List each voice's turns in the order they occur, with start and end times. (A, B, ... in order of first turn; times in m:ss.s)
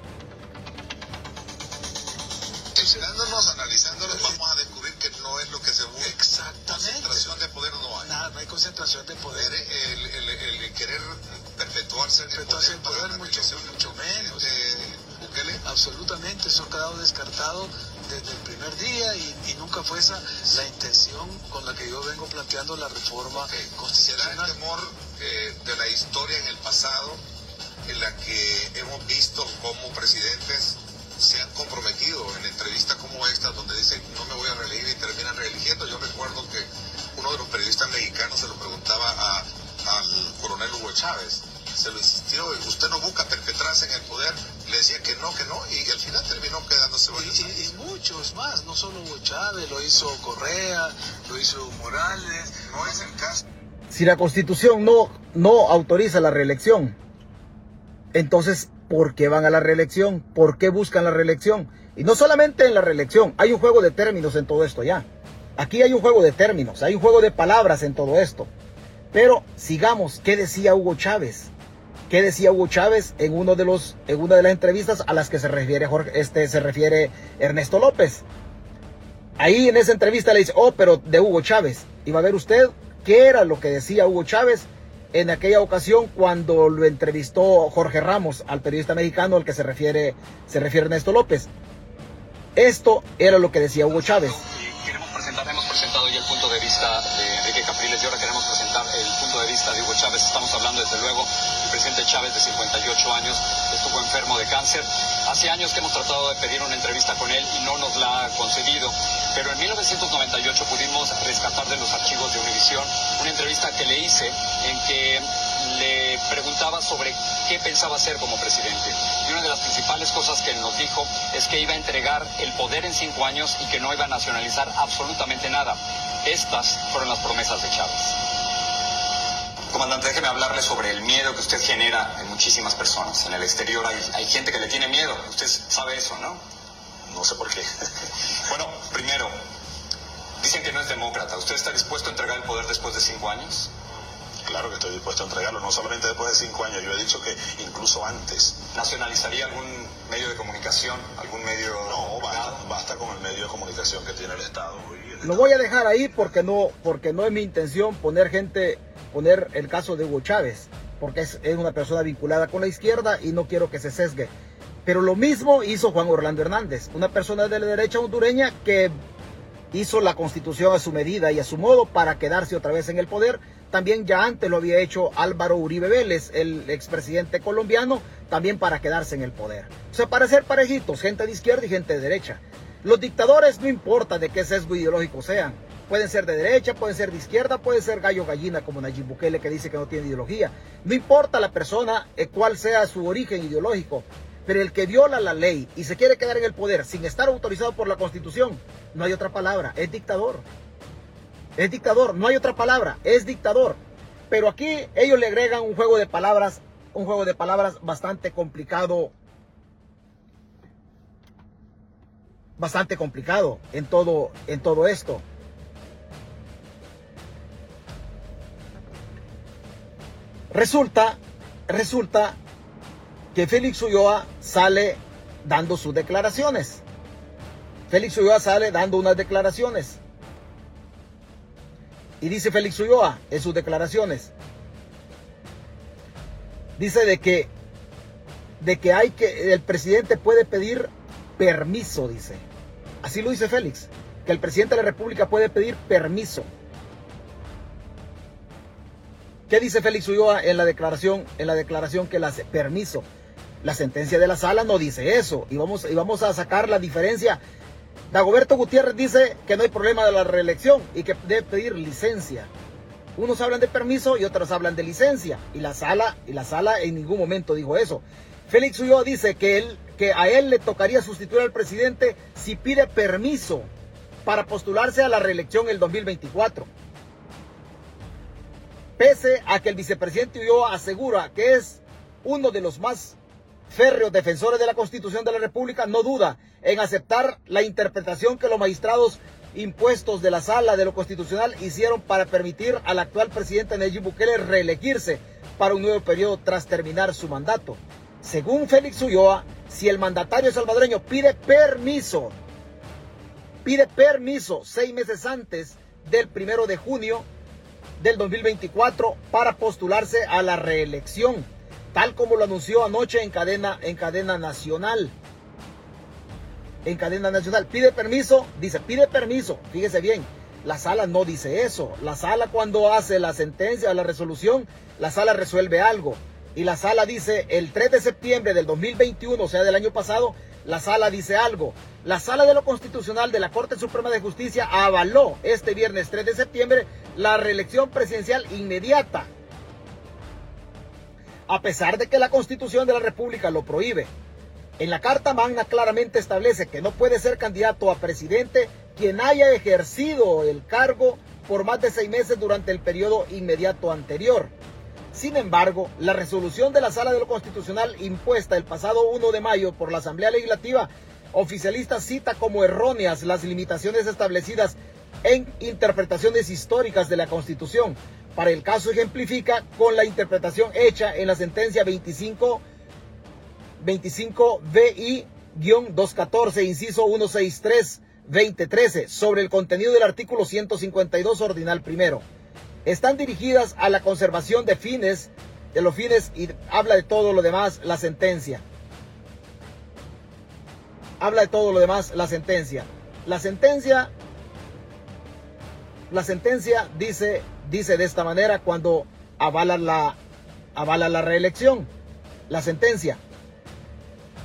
0:02.7-0:08.2 A
0:06.0-0:07.4 B
0:08.0-0:09.5 B
0:09.3-0:15.6 A
0:12.3-0:14.5 B
0:15.6-0:24.5 B
0:23.3-0:27.2 A
0:27.8-0:47.7 A
0:47.1-0:53.1 B
0:52.6-0:53.4 A
0:53.9-0:57.0 C
0:58.1-1:05.1 C
1:05.6-1:08.5 C
1:09.1-1:11.5 C
1:12.1-1:18.2 C
1:19.4-1:31.5 C
1:32.6-1:34.4 C
1:34.0-2:08.2 D
2:09.7-2:16.4 D
2:17.1-2:17.6 E
2:18.5-2:19.3 D
2:20.4-2:23.7 D
2:24.4-2:28.6 E
2:28.7-2:32.6 D
2:31.2-2:35.5 E
2:35.2-2:44.3 C
2:44.8-2:49.0 C
2:49.7-3:20.4 C
3:21.6-3:29.1 C
3:32.6-3:35.2 C
3:40.5-3:42.4 C
3:43.3-3:46.8 C
3:47.9-3:50.0 C
3:52.2-3:54.3 C
3:56.8-3:57.5 C
3:58.6-4:02.4 C
4:03.0-4:06.5 C
4:09.5-4:13.1 C
4:13.6-4:17.4 C
4:18.1-4:22.5 C
4:23.2-4:33.7 C
4:34.2-4:36.7 C
4:39.0-4:43.2 C
4:43.7-5:02.4 C
5:03.6-5:07.3 C
5:08.0-5:15.1 C
5:16.8-5:39.3 C
5:41.5-5:44.1 C
5:44.8-5:54.5 C
5:55.1-6:12.6 C
6:13.8-6:22.2 C
6:22.8-6:28.6 C
6:31.2-6:34.1 C
6:36.1-6:40.2 C
6:40.7-6:41.9 C
6:42.5-6:43.2 C